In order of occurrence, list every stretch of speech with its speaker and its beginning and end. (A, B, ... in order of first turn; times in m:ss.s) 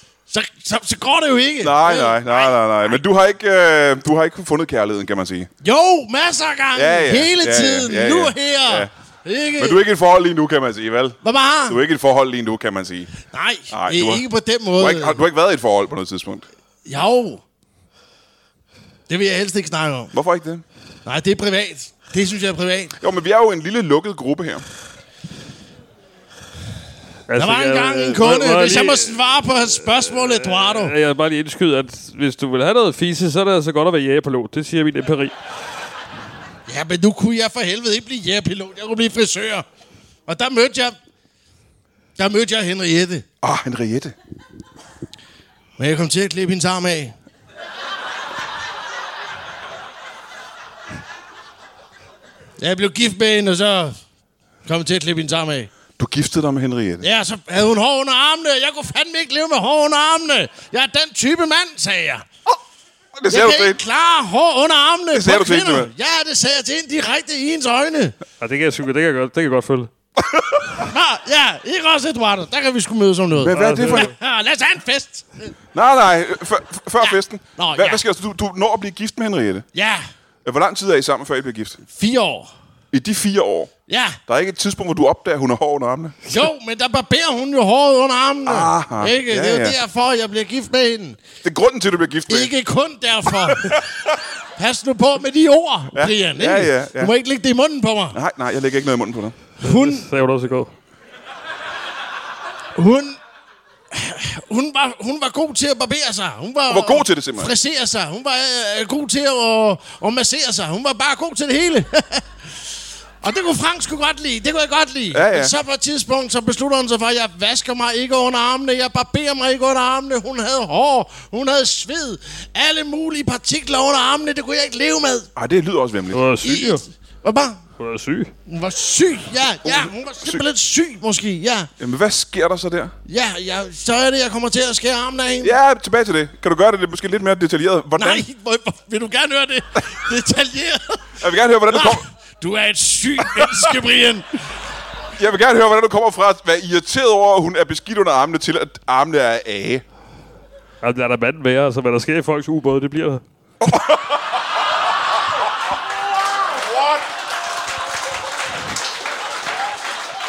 0:00.3-0:03.0 A
0:01.6-0:05.5 B
0:05.6-0:09.8 A
0:06.7-0:08.9 B
0:09.6-0:13.1 B
0:11.2-0:11.8 A
0:13.3-0:15.2 A
0:13.7-0:14.2 B
0:14.8-0:16.4 B
0:16.8-0:17.4 A
0:19.1-0:20.1 A
0:20.1-0:20.6 B
0:21.0-0:23.0 A
0:23.0-0:24.6 B
0:27.3-0:35.3 C
0:27.4-0:30.9 A
0:36.7-0:39.6 A
0:40.3-0:41.0 A
0:42.2-0:43.2 A
0:43.4-0:44.2 B
0:45.8-0:47.2 A
0:52.6-0:54.0 A
0:54.6-0:55.7 A
0:56.0-0:57.0 B
0:57.0-1:02.2 A
1:03.2-1:03.8 B
1:03.3-1:08.2 A
1:05.1-1:05.9 B
1:08.4-1:09.9 C
1:10.2-1:10.8 B
1:10.8-1:15.5 A
1:13.3-1:14.1 B
1:13.5-1:14.1 C
1:15.7-1:19.6 B
1:17.0-1:18.0 A
1:19.7-1:20.0 A
1:20.4-1:21.8 B
1:21.9-1:22.5 A
1:22.9-1:23.7 B
1:23.9-1:24.2 A
1:24.3-1:26.1 B
1:26.2-1:31.2 A
1:28.4-1:29.8 B
1:31.4-1:32.5 B
1:32.3-1:33.8 A
1:33.5-1:33.8 B
1:34.6-1:38.2 A
1:35.9-1:37.1 B
1:38.1-1:39.4 B
1:39.6-1:40.1 A
1:39.6-1:40.7 C
1:42.8-1:43.2 A
1:43.9-1:52.6 A
1:46.7-1:47.5 B
1:53.2-2:05.3 A
1:55.1-1:55.5 B
2:05.4-2:06.2 B
2:06.1-2:06.8 C
2:06.4-2:07.6 A
2:07.8-2:08.3 C
2:08.5-2:11.7 A
2:09.6-2:10.4 B
2:11.8-2:12.9 B
2:13.0-2:15.5 A
2:15.4-2:18.2 B
2:18.0-2:24.4 A
2:21.2-2:22.0 B
2:23.2-2:23.7 B
2:25.2-2:29.8 B
2:30.8-2:33.2 C
2:33.6-2:34.2 B